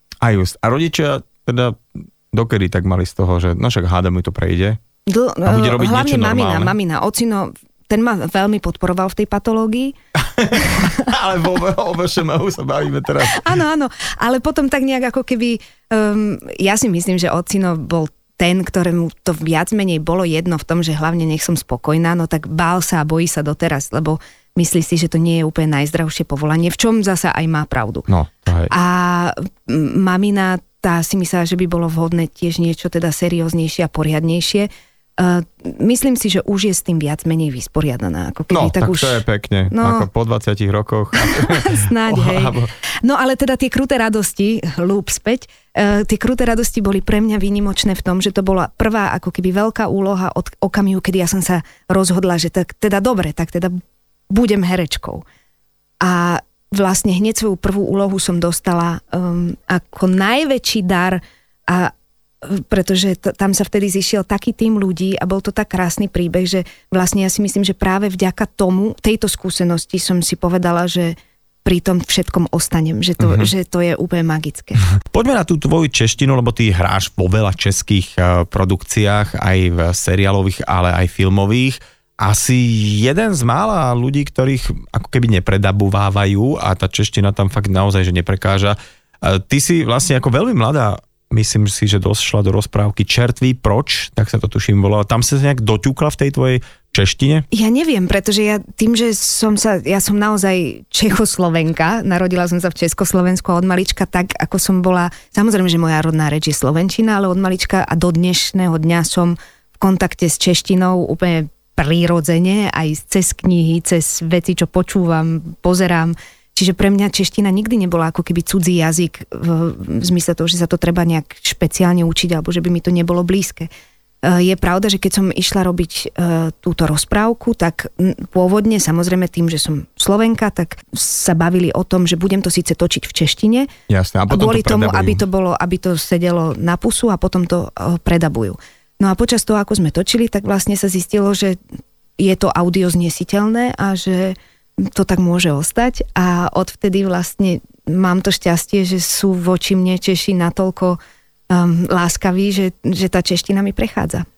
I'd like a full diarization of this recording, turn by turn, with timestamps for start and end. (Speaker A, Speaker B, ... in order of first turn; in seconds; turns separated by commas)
Speaker A: 0.2-4.8, Speaker B: 5.1-9.9, Speaker A: 5.5-6.8, Speaker A: 10.2-13.5, Speaker B: 10.6-11.1, Speaker B: 13.3-28.1, Speaker A: 28.1-28.7, Speaker B: 28.7-40.1, Speaker A: 38.5-42.7, Speaker B: 41.2-53.8, Speaker B: 54.3-55.2, Speaker B: 56.0-74.9, Speaker A: 73.2-73.5, Speaker A: 75.0-97.5, Speaker B: 97.5-123.7, Speaker B: 124.2-133.7, Speaker A: 133.9-135.2, Speaker B: 134.3-141.6, Speaker B: 142.2-144.4, Speaker B: 144.9-151.0, Speaker B: 151.5-154.3